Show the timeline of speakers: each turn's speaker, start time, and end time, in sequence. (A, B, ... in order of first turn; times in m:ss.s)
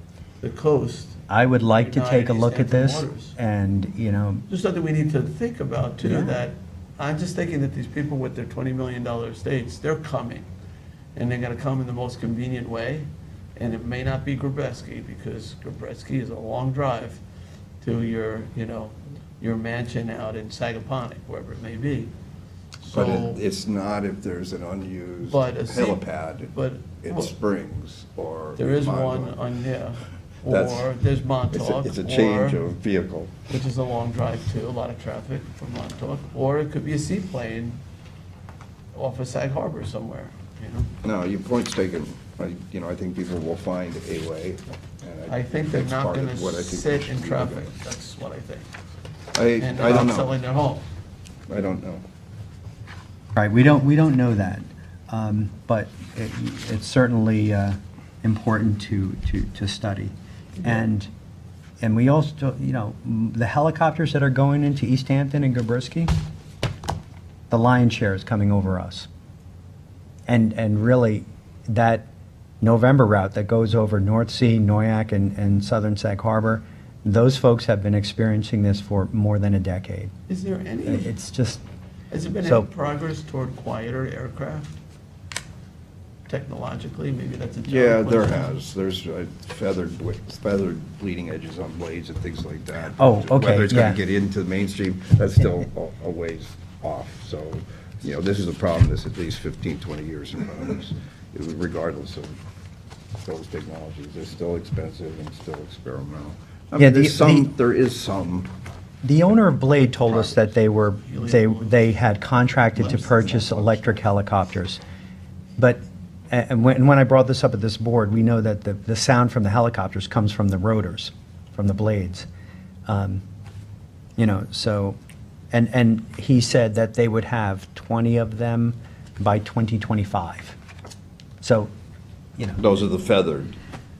0:00.4-0:01.2 A
0:01.3-0:04.4 B
0:01.8-0:03.3 A
0:04.5-0:10.5 A
0:06.0-0:06.4 B
0:11.1-0:17.2 A
0:17.8-0:22.1 A
0:22.8-0:23.4 A
0:22.8-0:29.4 C
0:25.2-0:27.3 A
0:28.6-0:32.6 A
0:30.5-0:30.9 C
0:31.5-0:33.4 C
0:33.5-0:37.8 A
0:38.9-0:40.9 A
0:41.0-0:47.7 C
0:45.3-0:48.7 A
0:49.3-0:50.3 C
0:49.6-0:50.8 A
0:51.5-0:52.0 C
0:53.3-1:01.1 B
1:01.8-1:06.1 B
1:07.5-1:09.1 B
1:10.3-1:12.1 B
1:12.6-1:20.1 B
1:20.3-1:21.1 A
1:20.8-1:21.6 B
1:22.1-1:24.7 A
1:22.4-1:22.7 B
1:26.3-1:28.5 A
1:27.7-1:42.4 C
1:33.0-1:34.0 B
1:43.2-1:48.5 C
1:46.8-1:47.5 B
1:49.0-1:54.8 B
1:51.0-1:52.0 A
1:52.7-1:54.0 A
1:55.6-2:02.3 B
2:02.9-2:03.2 B
2:04.2-2:05.0 B
2:05.5-2:10.6 B
2:11.4-2:11.7 B
2:12.6-2:13.6 C